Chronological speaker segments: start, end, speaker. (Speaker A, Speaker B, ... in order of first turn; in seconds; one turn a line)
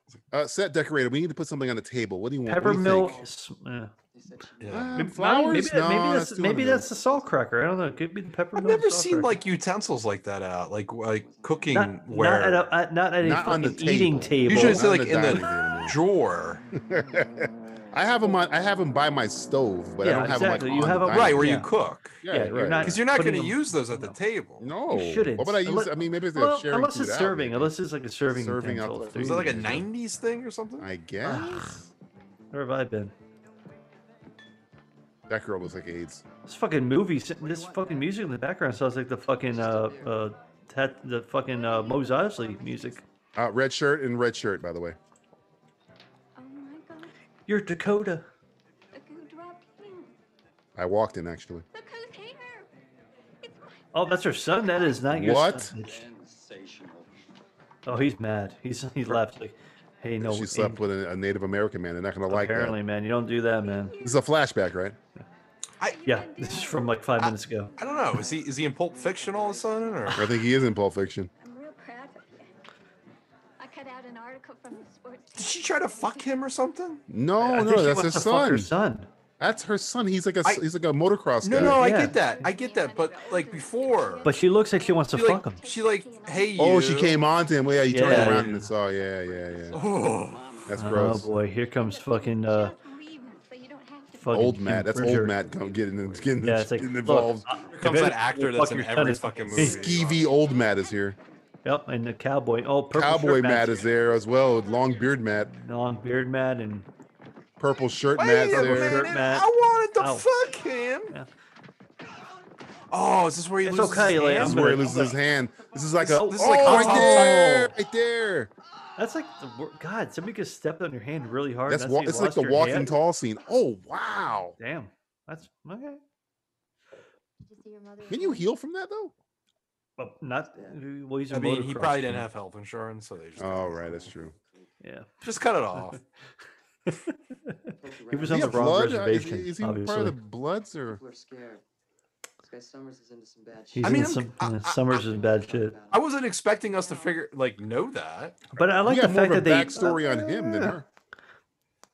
Speaker A: 0.3-3.2
Speaker B: 2.5-3.9
Speaker C: 2.6-3.4
Speaker C: 4.1-5.6
Speaker D: 4.6-5.0
Speaker A: 4.7-6.9
Speaker B: 5.0-9.3
Speaker C: 6.7-7.4
Speaker D: 8.6-12.7
Speaker C: 11.1-11.9
Speaker B: 11.7-14.9
Speaker A: 13.2-16.0
Speaker D: 14.5-16.6
Speaker A: 16.9-21.6
Speaker B: 20.0-21.7
Speaker D: 21.1-22.2
Speaker A: 22.2-23.0
Speaker B: 22.3-24.2
Speaker D: 22.8-24.6
Speaker A: 24.6-27.8
Speaker B: 24.9-29.7
Speaker A: 28.3-29.9
Speaker D: 29.2-30.9
Speaker A: 30.8-31.8
Speaker B: 31.2-31.8
Speaker B: 32.5-33.1
Speaker A: 35.3-36.2
Speaker B: 36.5-43.0
Speaker C: 37.4-38.2
Speaker C: 39.3-40.3
Speaker E: 41.5-43.0
Speaker A: 43.4-45.0
Speaker E: 46.4-47.1
Speaker B: 47.5-48.3
Speaker E: 48.9-50.2
Speaker A: 50.8-51.6
Speaker E: 51.7-52.7
Speaker E: 53.4-53.8
Speaker B: 53.9-56.0
Speaker A: 55.1-55.7
Speaker C: 55.8-57.1
Speaker B: 57.9-60.8
Speaker A: 60.2-62.8
Speaker B: 62.3-64.0
Speaker E: 63.6-64.4
Speaker A: 64.0-65.0
Speaker E: 65.8-68.2
Speaker B: 66.0-67.7
Speaker D: 67.2-70.2
Speaker C: 67.8-70.1
Speaker A: 70.2-71.3
Speaker E: 71.4-72.5
Speaker E: 73.6-76.4
Speaker D: 75.3-77.0
Speaker A: 77.1-78.7
Speaker B: 77.4-79.1
Speaker A: 79.4-81.8
Speaker D: 81.4-84.3
Speaker B: 81.5-82.2
Speaker E: 81.8-86.8
Speaker B: 84.2-85.6
Speaker D: 85.1-87.2
Speaker A: 86.6-89.8
Speaker B: 87.9-88.7
Speaker D: 88.0-88.6
Speaker C: 88.8-91.1
Speaker D: 89.7-90.4
Speaker A: 90.7-91.3
Speaker B: 90.8-92.8
Speaker E: 91.8-94.5
Speaker B: 94.2-95.4
Speaker A: 94.3-97.5
Speaker C: 95.4-96.3
Speaker B: 96.4-99.8
Speaker D: 97.7-100.2
Speaker A: 99.5-101.2
Speaker C: 99.9-100.2
Speaker B: 101.6-103.9
Speaker A: 102.9-105.5
Speaker B: 105.5-106.9
Speaker A: 107.6-109.0
Speaker D: 108.2-111.2
Speaker B: 108.5-110.3
Speaker D: 112.9-114.8
Speaker B: 113.6-115.2
Speaker A: 114.3-118.5
Speaker B: 116.0-117.7
Speaker D: 116.2-117.5
Speaker B: 119.0-122.9
Speaker A: 121.7-124.6
Speaker B: 124.6-126.0
Speaker E: 127.4-128.5
Speaker A: 128.1-129.1
Speaker B: 130.0-132.3
Speaker D: 131.3-133.8
Speaker A: 133.4-134.3
Speaker C: 133.5-134.7
Speaker B: 134.8-135.1
Speaker D: 135.2-136.0
Speaker B: 136.9-140.2
Speaker C: 137.8-139.0
Speaker A: 138.3-141.0
Speaker C: 140.9-141.6
Speaker C: 142.4-144.2
Speaker B: 143.7-145.8
Speaker D: 143.8-145.0
Speaker C: 144.9-146.2
Speaker D: 145.9-148.4
Speaker B: 148.5-150.8
Speaker A: 148.8-150.9